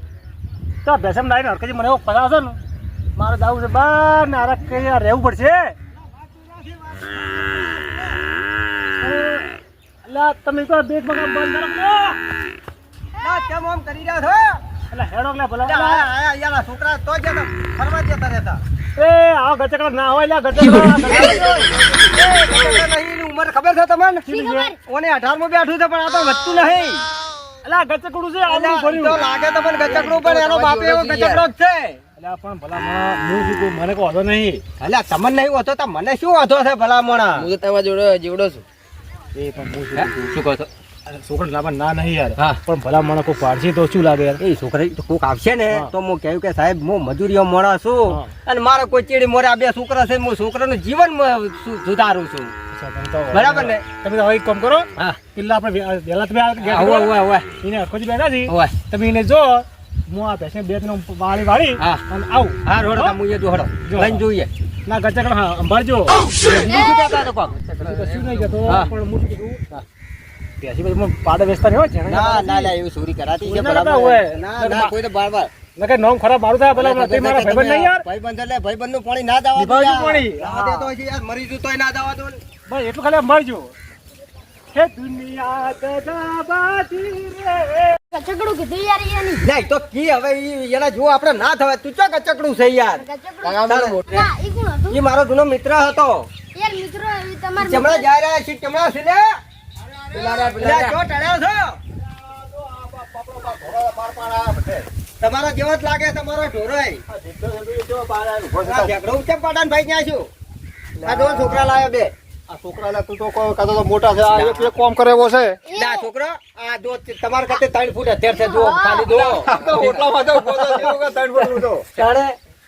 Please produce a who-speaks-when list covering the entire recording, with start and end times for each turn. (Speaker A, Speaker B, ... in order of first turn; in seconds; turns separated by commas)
Speaker A: 0.8-2.6, Speaker A: 3.1-5.7, Speaker B: 6.0-7.9, Speaker A: 9.0-9.5, Speaker A: 10.1-12.2, Speaker B: 13.2-14.6, Speaker A: 14.9-16.1, Speaker B: 15.6-18.6, Speaker A: 19.0-21.5, Speaker B: 21.0-27.0, Speaker C: 22.5-22.8, Speaker A: 24.3-24.7, Speaker D: 24.3-24.6, Speaker A: 27.6-29.2, Speaker B: 28.4-32.0, Speaker C: 29.8-31.5, Speaker A: 32.2-34.6, Speaker B: 34.8-37.5, Speaker C: 37.4-38.6, Speaker A: 39.3-40.3, Speaker C: 39.9-40.7, Speaker A: 41.1-44.4, Speaker B: 44.4-52.5, Speaker A: 52.7-63.1, Speaker B: 53.3-53.8, Speaker B: 56.6-57.5, Speaker B: 58.5-58.8, Speaker B: 62.6-64.5, Speaker A: 63.9-64.2, Speaker A: 64.8-66.4, Speaker B: 66.3-67.8, Speaker A: 67.8-69.8, Speaker B: 68.6-68.9, Speaker A: 70.6-72.7, Speaker B: 72.1-75.5, Speaker A: 73.4-74.9, Speaker A: 75.8-78.0, Speaker B: 76.7-82.4, Speaker A: 79.5-80.9, Speaker A: 82.7-83.7, Speaker A: 84.7-88.0, Speaker D: 88.1-89.4, Speaker B: 89.4-93.0, Speaker D: 93.0-93.5, Speaker C: 93.4-94.3, Speaker B: 93.7-94.3, Speaker D: 94.1-95.0, Speaker B: 94.9-96.3, Speaker D: 96.5-98.0, Speaker B: 97.6-99.3, Speaker E: 99.8-100.7, Speaker C: 100.1-100.9, Speaker B: 100.6-101.8, Speaker E: 102.0-104.8, Speaker B: 105.2-107.0, Speaker E: 107.1-108.9, Speaker B: 108.6-110.3, Speaker E: 111.0-111.8, Speaker B: 111.0-112.1, Speaker E: 112.5-115.6, Speaker B: 114.3-114.7, Speaker D: 115.7-116.1, Speaker B: 115.7-121.0, Speaker D: 118.4-119.2, Speaker E: 119.1-121.9, Speaker B: 122.0-122.3